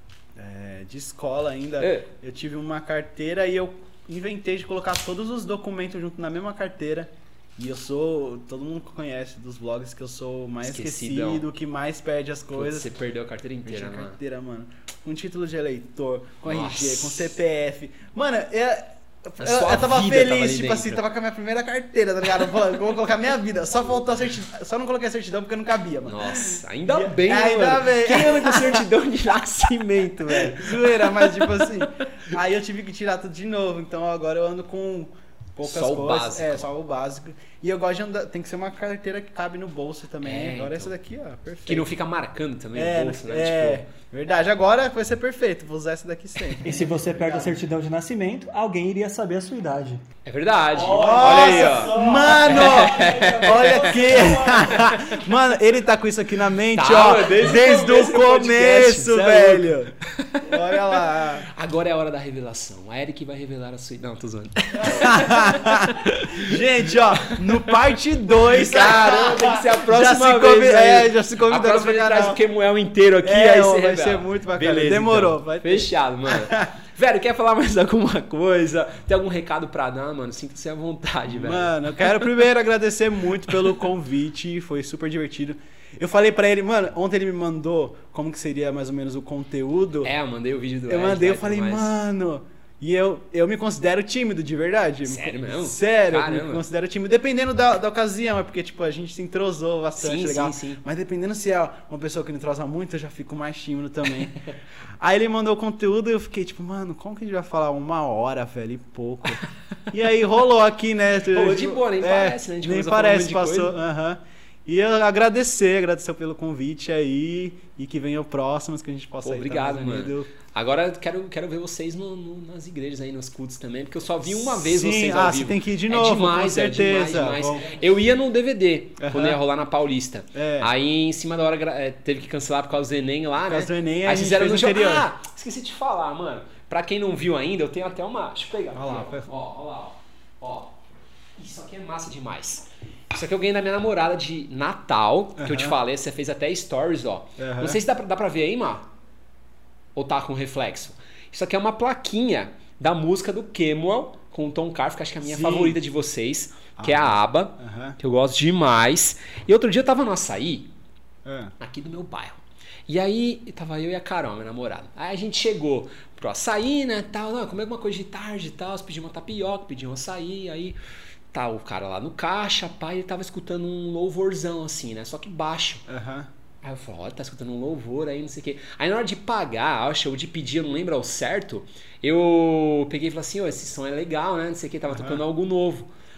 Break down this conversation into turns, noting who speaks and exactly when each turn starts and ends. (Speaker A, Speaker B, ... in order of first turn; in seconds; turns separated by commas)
Speaker A: 0.3-12.9, Speaker B: 1.8-2.1, Speaker B: 10.6-11.4, Speaker B: 12.5-14.2, Speaker A: 13.6-28.9, Speaker B: 16.4-17.3, Speaker B: 19.4-21.0, Speaker B: 26.1-32.0, Speaker A: 30.2-41.9, Speaker B: 35.6-36.7, Speaker B: 40.2-40.9, Speaker B: 41.6-43.8, Speaker A: 42.7-47.5, Speaker C: 46.6-50.0, Speaker B: 50.2-55.0, Speaker C: 50.7-55.0, Speaker A: 50.9-61.5, Speaker B: 56.7-66.6, Speaker A: 64.8-72.4, Speaker B: 68.4-81.7, Speaker A: 73.2-76.7, Speaker A: 81.3-90.1, Speaker B: 90.0-91.9, Speaker A: 90.9-104.4, Speaker B: 95.0-96.6, Speaker B: 100.0-100.8, Speaker A: 105.0-120.3, Speaker B: 111.2-113.7, Speaker B: 119.2-140.8, Speaker A: 124.3-127.6, Speaker A: 129.0-129.4, Speaker A: 130.3-130.7, Speaker A: 133.4-135.1, Speaker A: 138.7-139.3, Speaker B: 141.4-148.9, Speaker A: 145.4-145.8, Speaker A: 147.4-147.8, Speaker B: 149.9-160.7, Speaker A: 155.2-155.8, Speaker A: 156.8-158.0, Speaker A: 161.2-161.5, Speaker B: 161.6-170.8, Speaker B: 171.3-175.8, Speaker A: 175.9-176.3, Speaker B: 176.6-185.9, Speaker A: 184.9-185.2